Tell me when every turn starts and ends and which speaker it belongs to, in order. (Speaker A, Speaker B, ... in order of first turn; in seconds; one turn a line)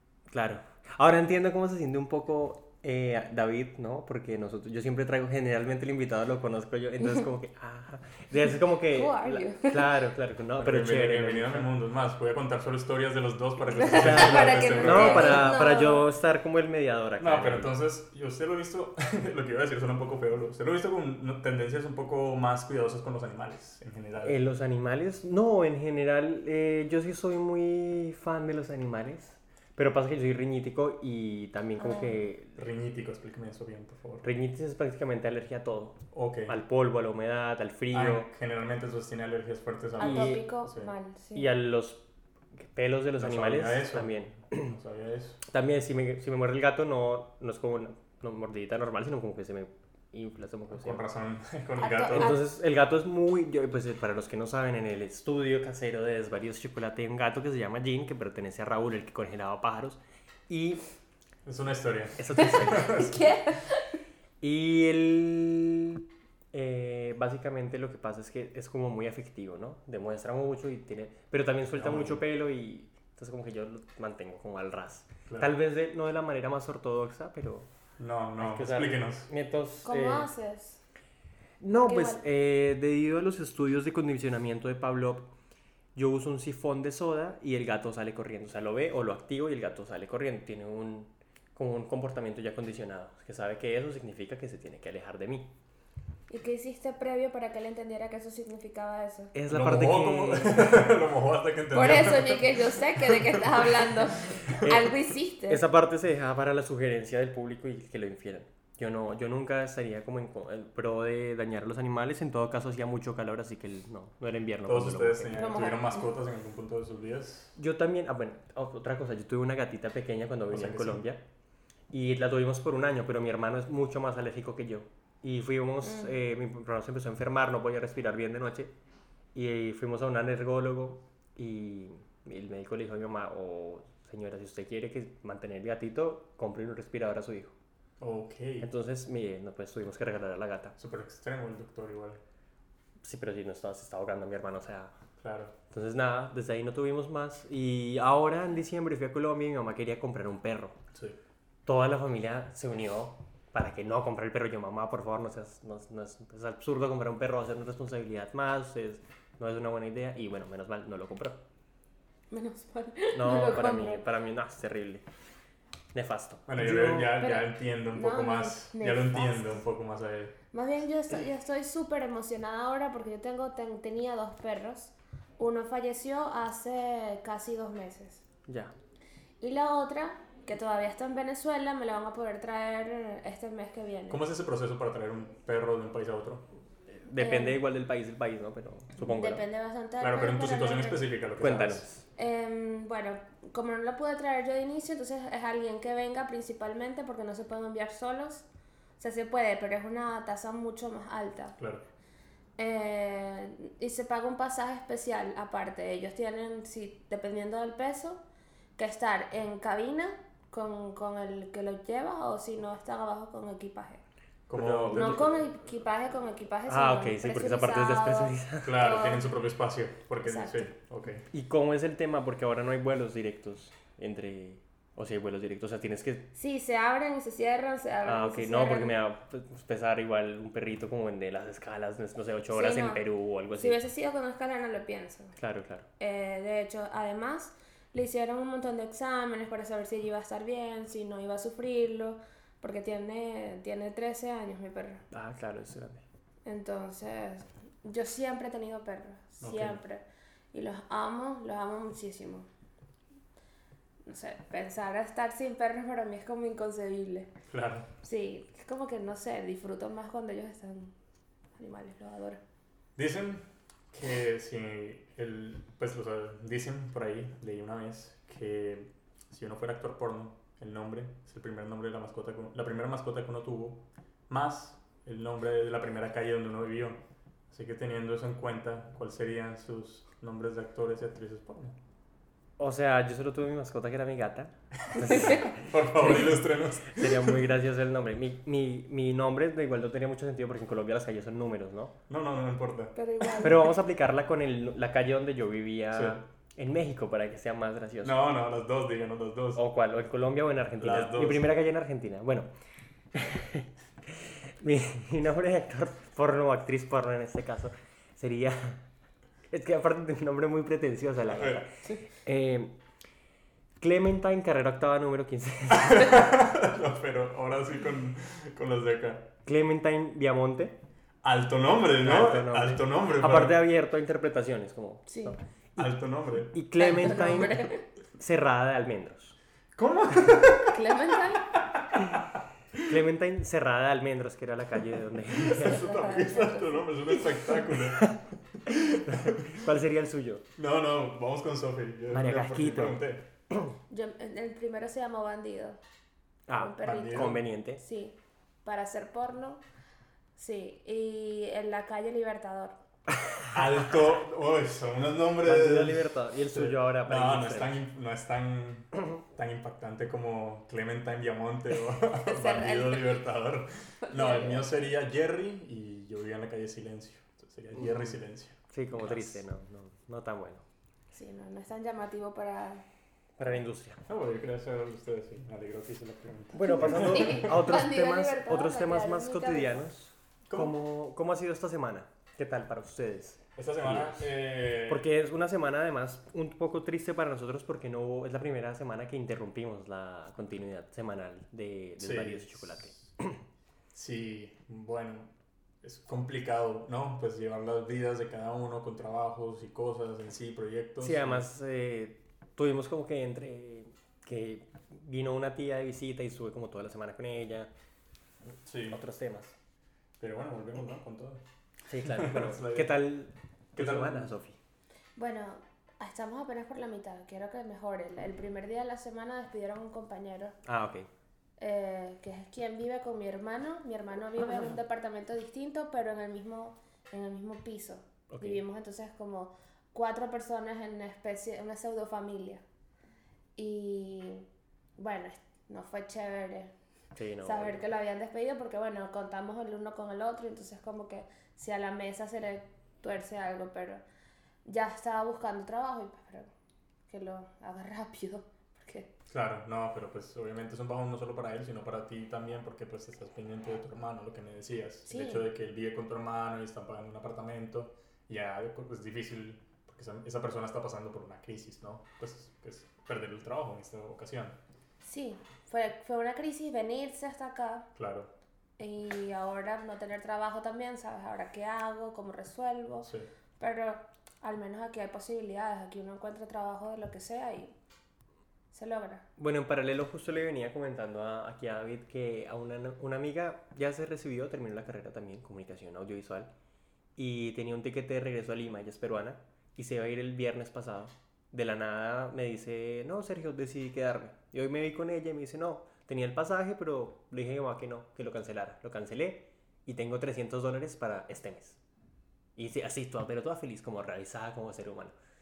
Speaker A: 0.3-11.7
Speaker B: 8.8-9.9
Speaker C: 10.6-15.5
Speaker B: 13.7-16.1
Speaker A: 13.8-17.8
Speaker C: 17.2-24.4
Speaker A: 24.2-32.6
Speaker B: 31.8-32.2
Speaker C: 32.5-34.3
Speaker A: 34.2-38.3
Speaker C: 36.1-36.6
Speaker C: 37.9-40.9
Speaker B: 40.0-41.5
Speaker A: 40.0-40.5
Speaker A: 41.3-42.0
Speaker A: 42.6-44.7
Speaker C: 43.2-45.4
Speaker A: 45.4-51.0
Speaker C: 50.8-52.4
Speaker B: 51.8-52.4
Speaker A: 52.1-60.8
Speaker C: 61.5-63.1
Speaker A: 62.2-63.2
Speaker B: 62.4-64.0
Speaker A: 64.4-77.7
Speaker C: 71.8-72.2
Speaker C: 75.3-75.5
Speaker C: 78.0-79.3
Speaker A: 78.4-80.3
Speaker B: 79.8-80.8
Speaker A: 81.6-85.3
Speaker B: 81.8-82.2
Speaker A: 85.9-95.5
Speaker B: 96.3-99.3
Speaker A: 99.3-100.9
Speaker C: 99.5-104.6
Speaker B: 101.7-105.6
Speaker A: 104.5-105.0
Speaker A: 105.5-115.6
Speaker C: 114.6-117.5
Speaker B: 115.3-116.1
Speaker A: 117.5-121.2
Speaker C: 120.5-121.0
Speaker A: 121.9-128.7
Speaker B: 125.8-126.1
Speaker A: 129.3-137.5
Speaker C: 138.0-138.7
Speaker A: 138.6-140.7
Speaker C: 140.8-142.2
Speaker A: 143.0-144.9
Speaker C: 145.2-145.5
Speaker A: 145.7-150.8
Speaker A: 151.7-161.4
Speaker B: 162.3-164.0
Speaker A: 163.1-165.0
Speaker A: 165.9-167.2
Speaker C: 166.5-170.3
Speaker B: 167.2-169.6
Speaker B: 170.5-178.2
Speaker A: 178.5-178.7
Speaker B: 179.4-184.2
Speaker C: 184.1-186.5
Speaker A: 186.9-189.4
Speaker B: 187.2-187.6
Speaker B: 189.0-191.1
Speaker C: 190.0-191.9
Speaker A: 191.4-192.0
Speaker B: 192.2-198.4
Speaker B: 199.0-201.5
Speaker C: 201.6-201.8
Speaker B: 202.6-208.2
Speaker B: 208.8-214.0
Speaker C: 214.5-215.3
Speaker A: 214.5-215.4
Speaker B: 214.9-219.3
Speaker A: 216.7-218.8
Speaker C: 218.6-221.3
Speaker B: 220.2-220.7
Speaker A: 221.3-226.3
Speaker B: 226.3-229.0
Speaker A: 228.0-233.8
Speaker B: 232.5-235.3
Speaker A: 235.4-235.9
Speaker B: 236.0-245.0
Speaker A: 245.1-246.0
Speaker B: 246.4-252.5
Speaker C: 249.4-249.8
Speaker B: 254.0-257.3
Speaker C: 257.5-257.9
Speaker B: 258.0-260.9
Speaker B: 261.6-262.4
Speaker C: 262.9-281.8
Speaker A: 282.6-291.9
Speaker C: 284.9-287.4
Speaker C: 292.1-292.9
Speaker B: 292.9-293.8
Speaker A: 293.4-298.2
Speaker C: 295.9-296.2
Speaker C: 298.0-299.6
Speaker A: 299.5-302.5
Speaker C: 300.8-301.5
Speaker A: 303.1-308.8
Speaker A: 309.5-312.7
Speaker C: 311.3-311.7
Speaker A: 313.8-316.2
Speaker C: 315.7-319.3
Speaker A: 319.4-320.8
Speaker C: 321.2-323.6
Speaker A: 321.9-325.9
Speaker B: 325.1-325.4
Speaker C: 325.8-326.6
Speaker A: 326.5-329.4
Speaker B: 326.8-327.8
Speaker C: 329.8-330.9
Speaker B: 330.6-331.5
Speaker C: 331.5-332.9
Speaker A: 332.8-336.1
Speaker C: 335.3-339.6
Speaker B: 335.6-336.8
Speaker A: 337.7-338.2
Speaker A: 338.8-340.4
Speaker C: 340.6-343.3
Speaker A: 342.1-343.7
Speaker B: 343.9-345.8
Speaker A: 346.5-347.8
Speaker B: 346.5-349.6
Speaker C: 346.8-347.4
Speaker B: 350.4-352.8
Speaker C: 353.5-369.4
Speaker A: 355.4-357.8
Speaker B: 362.2-363.2
Speaker B: 364.0-364.9
Speaker A: 368.7-370.6
Speaker B: 371.1-372.8
Speaker A: 373.4-374.0
Speaker C: 374.1-377.6
Speaker A: 376.5-393.4
Speaker B: 376.6-379.8
Speaker C: 380.5-380.8
Speaker C: 383.6-385.1
Speaker C: 392.0-393.1
Speaker C: 393.9-395.3
Speaker C: 395.8-401.4
Speaker A: 401.0-407.7
Speaker C: 408.6-409.0
Speaker A: 408.9-409.6
Speaker C: 410.2-411.4
Speaker A: 411.9-414.6
Speaker C: 412.0-413.0
Speaker C: 413.7-414.3
Speaker B: 415.2-420.6
Speaker A: 420.6-421.1
Speaker B: 421.6-432.6
Speaker A: 428.3-428.6
Speaker B: 433.6-434.4
Speaker B: 435.0-436.7
Speaker A: 437.1-437.9
Speaker B: 437.4-444.0
Speaker B: 444.6-446.5
Speaker B: 447.1-449.1
Speaker C: 449.3-464.6
Speaker B: 455.1-455.5
Speaker B: 465.0-467.9
Speaker C: 467.9-468.3
Speaker B: 468.8-477.7
Speaker B: 478.7-479.3
Speaker A: 479.4-486.5
Speaker A: 487.1-501.8
Speaker A: 502.6-505.1